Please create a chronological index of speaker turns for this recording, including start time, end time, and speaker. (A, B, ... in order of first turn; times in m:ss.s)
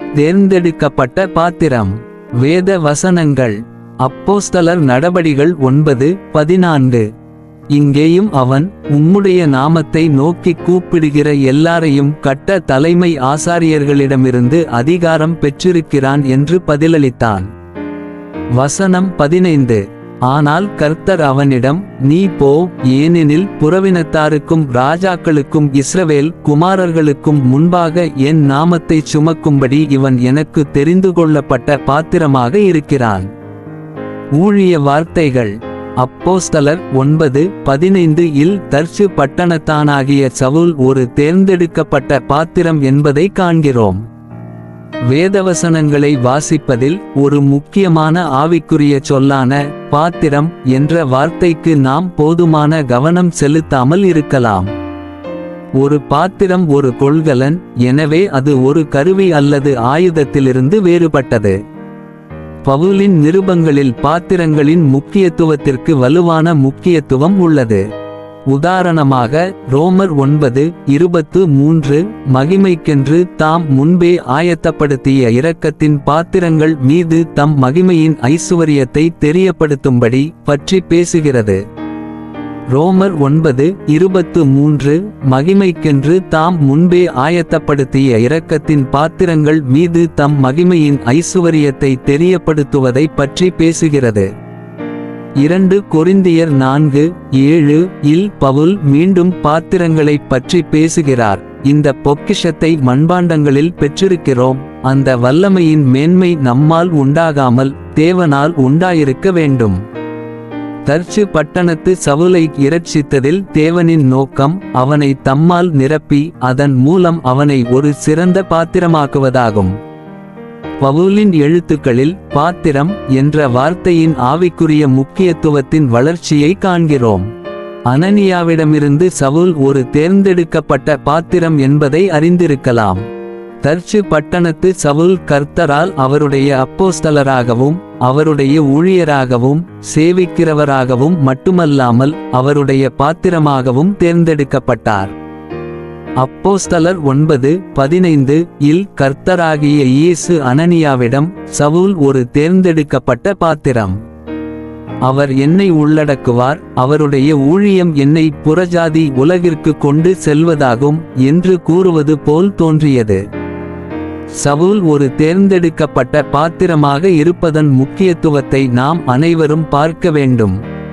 0:00.2-0:07.1 A
0:07.7-0:17.5 A
0:18.6-0:33.3 A
0:34.4-0:44.0 A
0:45.1-0:54.7 A
0:55.8-1:01.6 A
1:02.6-1:07.8 A
1:08.5-1:21.6 A
1:22.7-1:34.3 A
1:35.4-1:49.8 A
1:50.8-1:59.7 A
2:00.8-2:07.3 A
2:07.9-2:13.0 A
2:13.6-2:25.1 A
2:26.2-2:34.0 A
2:35.1-2:43.2 A
2:44.4-2:50.6 A